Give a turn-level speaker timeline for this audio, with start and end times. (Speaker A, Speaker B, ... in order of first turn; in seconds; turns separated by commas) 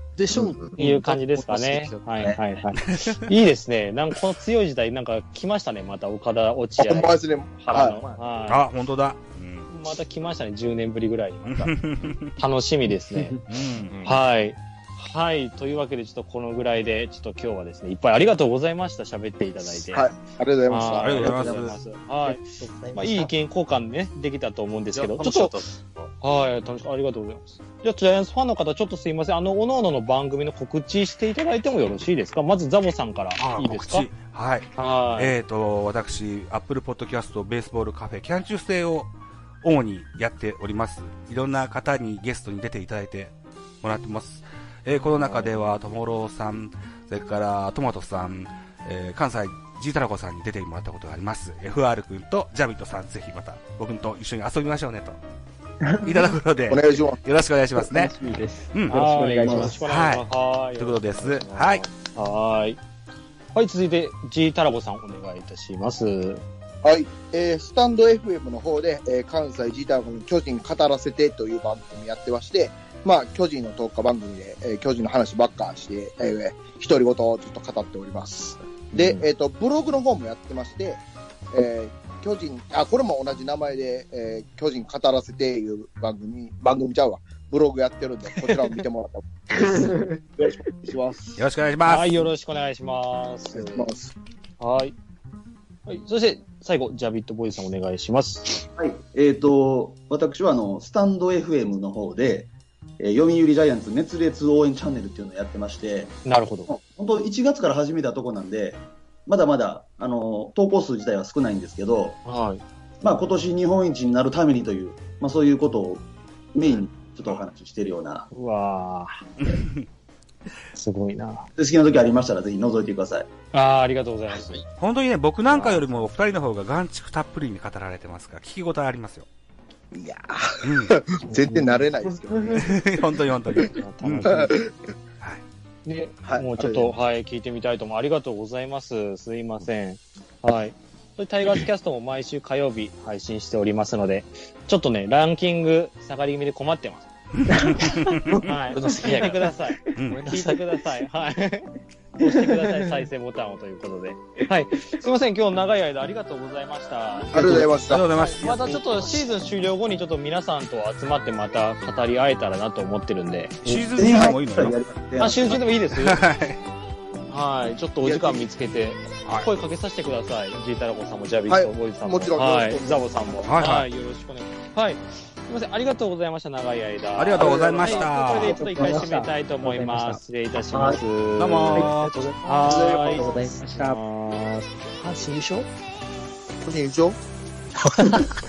Speaker A: 0.2-2.4, Speaker B: 0.3-0.7, Speaker C: 0.7-8.6, Speaker D: 2.8-3.2, Speaker B: 6.8-8.0, Speaker A: 7.9-8.2, Speaker D: 8.5-9.7, Speaker C: 9.7-11.7, Speaker D: 11.5-12.4, Speaker C: 12.3-13.4, Speaker D: 13.5-14.0, Speaker A: 13.9-14.2, Speaker C: 14.0-20.1, Speaker B: 19.9-21.7, Speaker C: 20.7-25.6, Speaker D: 21.0-21.8, Speaker A: 23.0-23.2, Speaker A: 24.9-26.1, Speaker C: 26.2-34.1, Speaker D: 33.4-55.2, Speaker C: 34.8-35.3, Speaker C: 45.2-45.5, Speaker D: 56.0-58.1, Speaker B: 56.7-57.2, Speaker E: 57.8-59.9, Speaker D: 58.7-59.0, Speaker C: 58.9-62.8, Speaker F: 59.4-59.7, Speaker D: 59.8-60.3, Speaker D: 60.8-61.8, Speaker C: 63.5-66.4, Speaker B: 66.8-91.4, Speaker E: 89.7-90.1, Speaker D: 91.4-92.3, Speaker C: 91.8-93.9, Speaker B: 93.5-94.1, Speaker C: 94.6-94.9, Speaker C: 95.8-98.6, Speaker F: 98.8-112.2, Speaker C: 106.2-106.7, Speaker C: 112.2-112.6, Speaker F: 113.0-118.3, Speaker C: 118.3-119.2, Speaker D: 119.4-119.8, Speaker C: 120.7-121.5, Speaker F: 121.6-123.3, Speaker C: 123.5-124.6, Speaker A: 124.3-124.6, Speaker D: 124.8-129.2, Speaker C: 125.5-126.2, Speaker B: 129.9-132.7, Speaker D: 130.6-131.0, Speaker E: 131.3-132.6, Speaker D: 132.5-134.5, Speaker C: 133.7-134.6, Speaker B: 134.3-134.8, Speaker C: 135.8-147.1, Speaker B: 136.6-136.9, Speaker D: 147.4-148.4, Speaker E: 147.6-148.2, Speaker C: 148.4-163.9, Speaker A: 148.7-150.6, Speaker D: 149.9-150.3, Speaker B: 157.3-158.2, Speaker D: 157.8-159.1, Speaker A: 158.7-159.3, Speaker D: 163.6-164.8, Speaker F: 163.9-165.4, Speaker C: 165.2-166.2, Speaker D: 165.9-166.6, Speaker C: 167.3-184.7, Speaker B: 168.0-168.4, Speaker D: 169.2-169.5, Speaker B: 171.5-173.3, Speaker D: 173.4-173.9, Speaker D: 177.2-178.7, Speaker B: 177.4-177.9, Speaker E: 178.4-180.2, Speaker F: 178.7-179.1, Speaker D: 181.4-182.2, Speaker E: 182.6-184.0, Speaker B: 182.6-183.5, Speaker A: 184.9-185.7, Speaker B: 186.6-187.2, Speaker B: 188.0-188.3